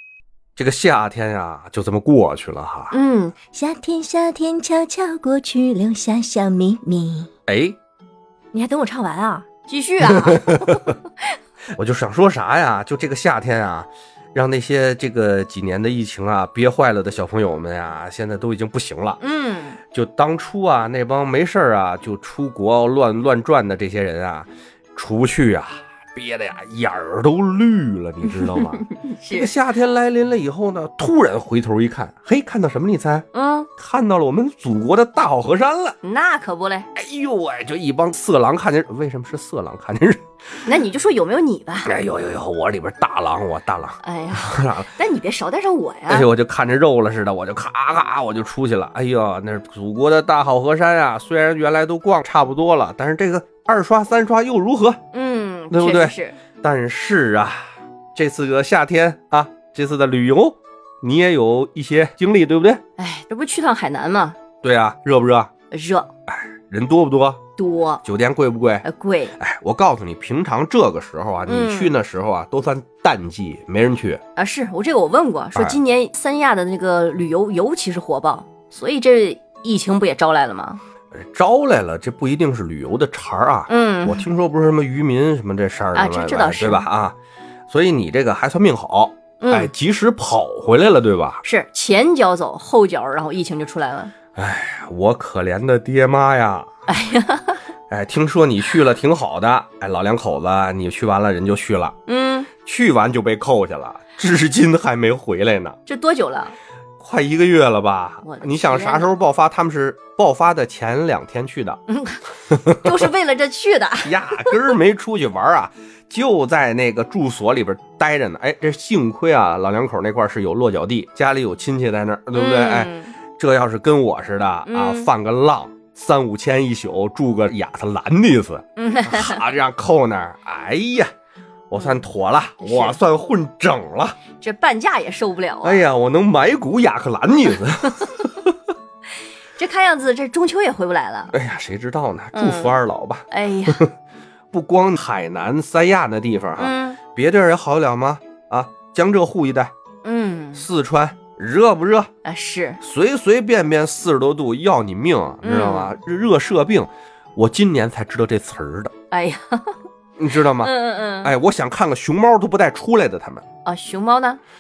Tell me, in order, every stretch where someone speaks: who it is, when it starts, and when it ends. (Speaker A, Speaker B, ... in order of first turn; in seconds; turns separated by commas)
Speaker A: 0.6-3.0, Speaker B: 2.9-3.5, Speaker C: 3.5-7.3, Speaker A: 7.5-7.8, Speaker C: 8.5-9.4, Speaker B: 9.6-11.0, Speaker A: 10.0-10.9, Speaker A: 11.7-19.2, Speaker B: 19.2-19.8, Speaker A: 19.9-36.0, Speaker B: 28.2-29.5, Speaker B: 33.3-33.7, Speaker B: 36.0-36.9, Speaker A: 37.0-40.3, Speaker B: 40.6-41.9, Speaker A: 41.9-44.9, Speaker B: 44.0-46.3, Speaker A: 46.1-55.0, Speaker B: 55.1-56.4, Speaker A: 55.7-62.8, Speaker B: 63.0-64.4, Speaker A: 64.6-65.5, Speaker B: 65.7-66.1, Speaker A: 66.3-67.4, Speaker B: 67.6-68.0, Speaker A: 68.0-74.2, Speaker B: 68.8-69.4, Speaker B: 71.5-72.0, Speaker B: 74.4-80.8, Speaker A: 81.1-87.2, Speaker B: 83.7-84.2, Speaker B: 86.0-86.9, Speaker A: 87.7-91.4, Speaker B: 89.4-89.7, Speaker B: 91.4-94.1, Speaker A: 94.3-96.7, Speaker B: 96.9-97.6, Speaker A: 97.9-102.0, Speaker B: 102.1-102.5, Speaker A: 102.7-105.8, Speaker B: 105.9-106.5, Speaker A: 107.0-111.8, Speaker B: 108.2-109.2, Speaker B: 111.9-114.6, Speaker A: 112.5-113.1, Speaker A: 114.0-131.1, Speaker B: 122.3-123.2, Speaker B: 124.7-125.1, Speaker B: 128.8-129.4, Speaker A: 131.7-134.2, Speaker B: 132.6-133.0, Speaker B: 134.4-135.8, Speaker A: 135.6-138.6, Speaker B: 139.6-141.3, Speaker A: 141.3-143.9, Speaker B: 142.3-142.8, Speaker B: 143.3-143.8, Speaker A: 144.5-149.7, Speaker B: 146.6-147.0, Speaker B: 150.0-150.7, Speaker A: 150.5-152.1, Speaker B: 152.2-152.8, Speaker A: 152.8-158.9, Speaker B: 155.4-155.9, Speaker B: 159.1-159.8, Speaker A: 160.2-163.4, Speaker B: 160.5-161.3, Speaker B: 163.7-164.4